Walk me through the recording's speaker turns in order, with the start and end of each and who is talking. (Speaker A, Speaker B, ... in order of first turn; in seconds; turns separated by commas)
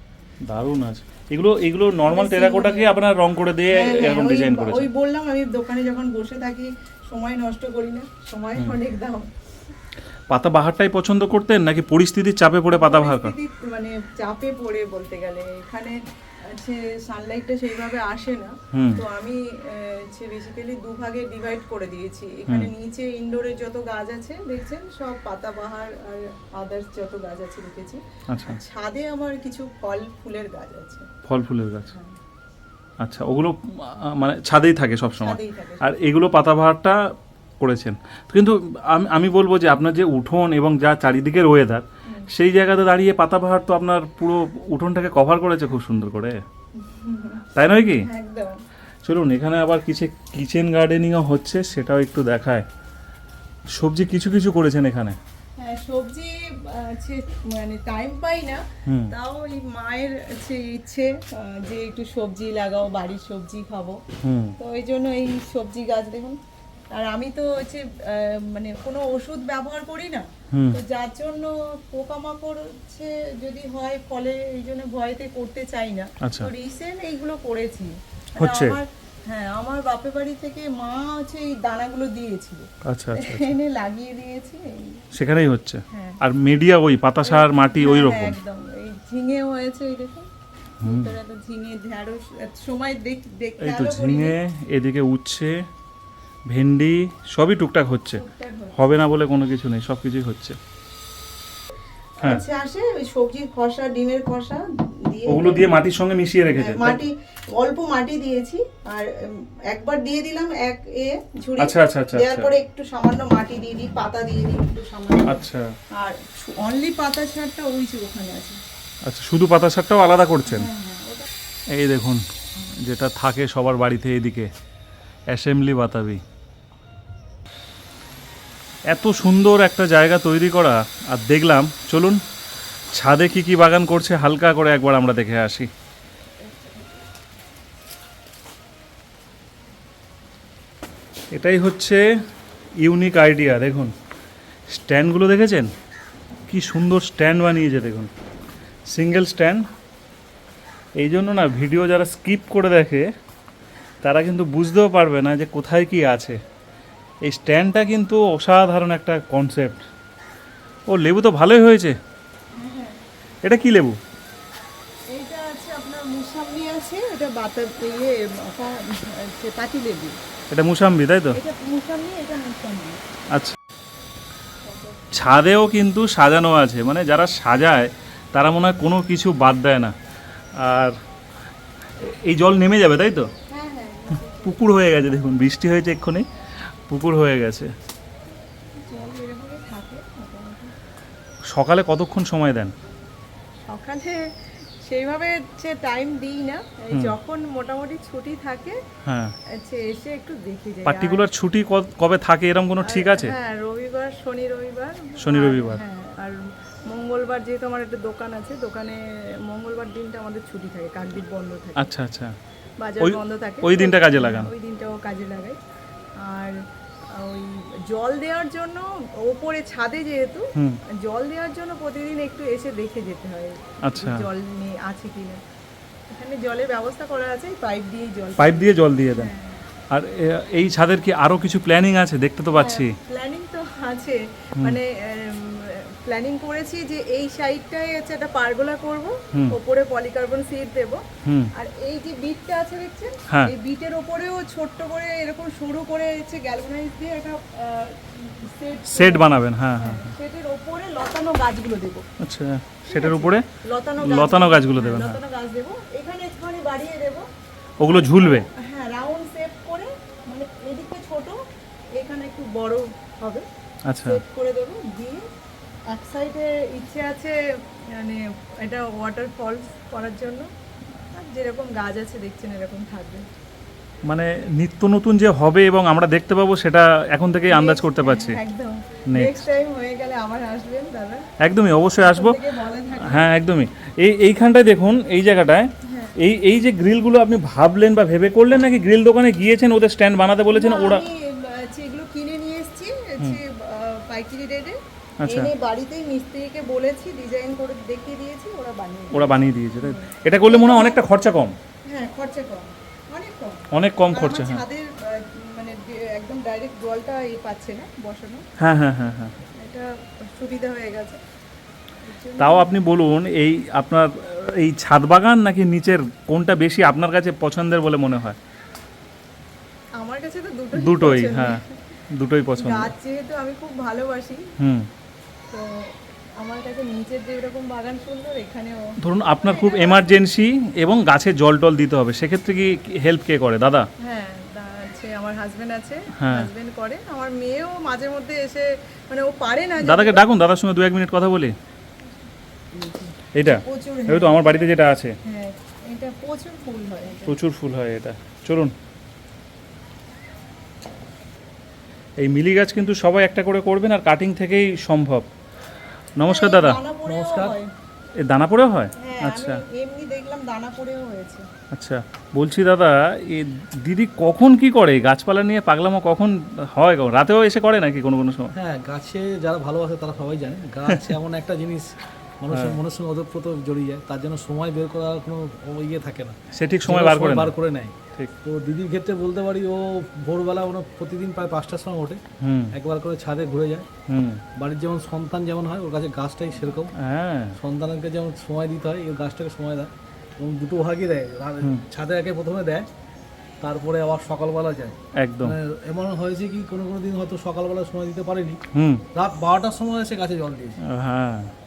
Speaker A: 0.5-4.9, Speaker B: 2.1-2.9, Speaker B: 3.7-9.3, Speaker A: 10.3-13.3, Speaker B: 12.7-31.1, Speaker A: 18.7-19.0, Speaker A: 28.3-28.6, Speaker A: 31.3-31.9, Speaker A: 33.0-37.1, Speaker B: 35.2-35.9, Speaker A: 37.6-46.4, Speaker B: 46.8-47.4, Speaker A: 47.5-48.1, Speaker B: 48.0-48.6, Speaker A: 49.0-52.7, Speaker A: 53.8-55.2, Speaker B: 55.6-64.0, Speaker A: 58.9-59.1, Speaker A: 64.2-64.6, Speaker B: 64.6-66.4, Speaker B: 66.9-85.0, Speaker A: 70.5-70.8, Speaker A: 76.2-76.5, Speaker A: 78.4-78.8, Speaker A: 82.8-83.5, Speaker A: 85.1-88.4, Speaker B: 85.9-86.2, Speaker B: 87.2-90.3, Speaker A: 90.8-91.2, Speaker B: 90.8-94.4, Speaker A: 93.6-95.7, Speaker A: 96.5-98.2, Speaker B: 98.1-98.8, Speaker A: 98.7-100.6, Speaker B: 102.2-105.7, Speaker A: 105.3-107.0, Speaker B: 106.5-115.4, Speaker A: 111.6-112.5, Speaker A: 115.3-115.7, Speaker B: 116.0-118.6, Speaker A: 119.0-120.7, Speaker B: 120.5-121.3, Speaker A: 121.7-124.5, Speaker A: 125.3-126.2, Speaker A: 128.9-132.2, Speaker A: 132.9-135.7, Speaker A: 141.3-142.1, Speaker A: 142.8-143.9, Speaker A: 144.7-145.7, Speaker A: 146.5-148.1, Speaker A: 148.9-149.7, Speaker A: 151.0-153.1, Speaker A: 154.0-156.4, Speaker A: 157.3-159.9, Speaker A: 160.9-162.0, Speaker B: 162.6-163.0, Speaker A: 163.4-164.0, Speaker B: 165.1-170.2, Speaker A: 170.5-171.4, Speaker B: 171.3-173.0, Speaker A: 173.3-173.6, Speaker B: 174.7-175.1, Speaker A: 175.1-179.9, Speaker A: 180.6-181.0, Speaker A: 182.0-183.3, Speaker B: 183.5-184.6, Speaker A: 184.4-187.7, Speaker B: 188.8-190.7, Speaker A: 191.5-192.8, Speaker B: 193.7-198.8, Speaker A: 199.0-199.3, Speaker B: 199.5-201.3, Speaker A: 200.8-203.3, Speaker B: 202.8-211.9, Speaker A: 205.2-205.8, Speaker A: 211.8-212.4, Speaker B: 212.8-215.6, Speaker A: 213.0-214.5, Speaker B: 216.2-216.6, Speaker B: 217.1-225.4, Speaker A: 223.8-224.3, Speaker B: 226.1-229.7, Speaker A: 228.4-229.3, Speaker A: 229.9-232.9, Speaker B: 232.5-241.0, Speaker A: 241.2-241.5, Speaker B: 241.6-252.1, Speaker A: 248.9-250.1, Speaker A: 252.2-253.5, Speaker B: 252.9-257.3, Speaker A: 254.0-255.2, Speaker A: 257.8-258.5, Speaker B: 257.9-261.4, Speaker B: 262.0-263.5, Speaker A: 263.9-264.2, Speaker B: 264.0-265.3, Speaker B: 265.9-270.5, Speaker B: 271.1-273.3, Speaker A: 274.1-278.4, Speaker B: 277.5-281.2, Speaker A: 279.1-279.5, Speaker A: 281.4-282.4, Speaker B: 282.0-283.3, Speaker A: 283.0-291.1, Speaker B: 285.8-286.2, Speaker B: 290.5-301.0, Speaker A: 295.2-295.5, Speaker A: 299.1-301.6, Speaker B: 301.9-308.4, Speaker A: 303.7-304.6, Speaker A: 308.6-309.4, Speaker B: 309.6-311.2, Speaker B: 312.0-312.7, Speaker A: 312.4-318.4, Speaker B: 320.0-321.8, Speaker A: 320.7-321.6, Speaker A: 322.1-322.9, Speaker B: 322.6-324.5, Speaker A: 324.6-324.9, Speaker B: 325.5-330.2, Speaker A: 329.0-333.9, Speaker B: 334.0-340.2, Speaker A: 336.2-336.5, Speaker A: 339.8-341.6, Speaker B: 342.8-344.7, Speaker A: 343.4-345.2, Speaker B: 345.2-347.4, Speaker A: 347.3-348.7, Speaker A: 352.2-355.3, Speaker A: 356.2-356.8, Speaker B: 356.3-357.7, Speaker C: 357.1-357.6, Speaker A: 358.2-359.6, Speaker B: 359.0-361.5, Speaker A: 361.7-368.5, Speaker C: 368.5-382.2, Speaker A: 370.9-371.1, Speaker A: 372.5-372.8, Speaker A: 376.5-377.6, Speaker A: 382.4-382.8, Speaker C: 382.7-383.9, Speaker A: 384.1-384.4, Speaker C: 384.6-386.9, Speaker A: 386.9-387.6, Speaker C: 387.6-392.9, Speaker C: 393.6-398.6, Speaker A: 395.2-395.6, Speaker A: 398.7-399.0, Speaker C: 399.1-400.8, Speaker A: 400.8-401.5